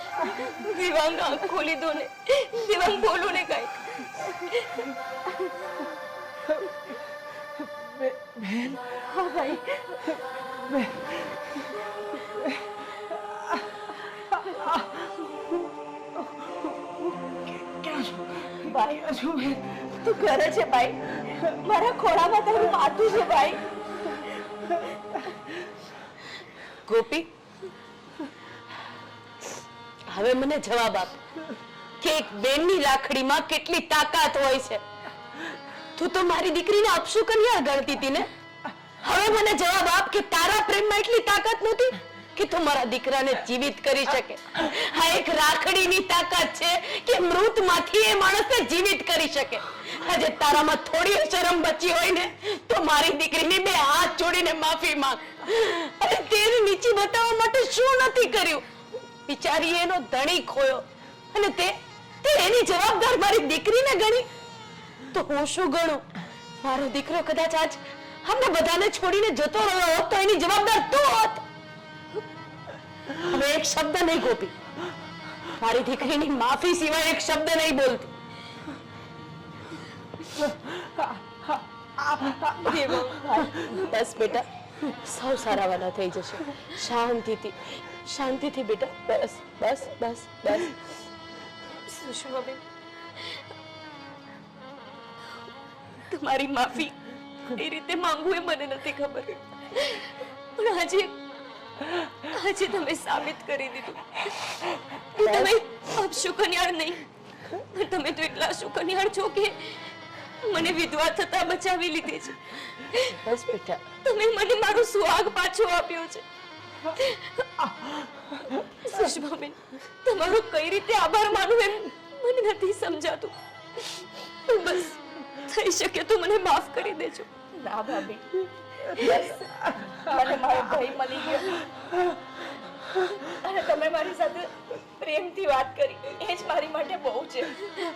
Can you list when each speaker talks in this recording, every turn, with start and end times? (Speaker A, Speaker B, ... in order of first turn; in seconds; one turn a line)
Speaker A: 0.4-4.9
Speaker B: 9.1-10.0
Speaker B: 17.6-23.6
Speaker C: 26.9-27.3
Speaker C: 30.1-31.2
Speaker C: 32.0-34.8
Speaker C: 36.0-38.3
Speaker C: 39.0-58.7
Speaker C: 59.3-64.3
Speaker C: 65.1-66.0
Speaker C: 66.6-71.4
Speaker C: 73.2-74.5
Speaker C: 75.6-78.1
Speaker A: 82.6-83.6
Speaker C: 83.4-90.8
Speaker A: 91.9-92.6
Speaker A: 96.1-97.0
Speaker A: 97.5-101.1
Speaker A: 102.3-104.6
Speaker A: 105.2-107.0
Speaker C: 105.2-105.5
Speaker A: 107.6-109.9
Speaker A: 110.4-113.2
Speaker C: 113.2-113.8
Speaker A: 114.0-116.2
Speaker A: 116.9-117.7
Speaker A: 118.4-123.9
Speaker A: 124.5-127.3
Speaker B: 127.6-128.3
Speaker B: 128.8-129.5
Speaker B: 130.0-131.6
Speaker B: 133.4-137.5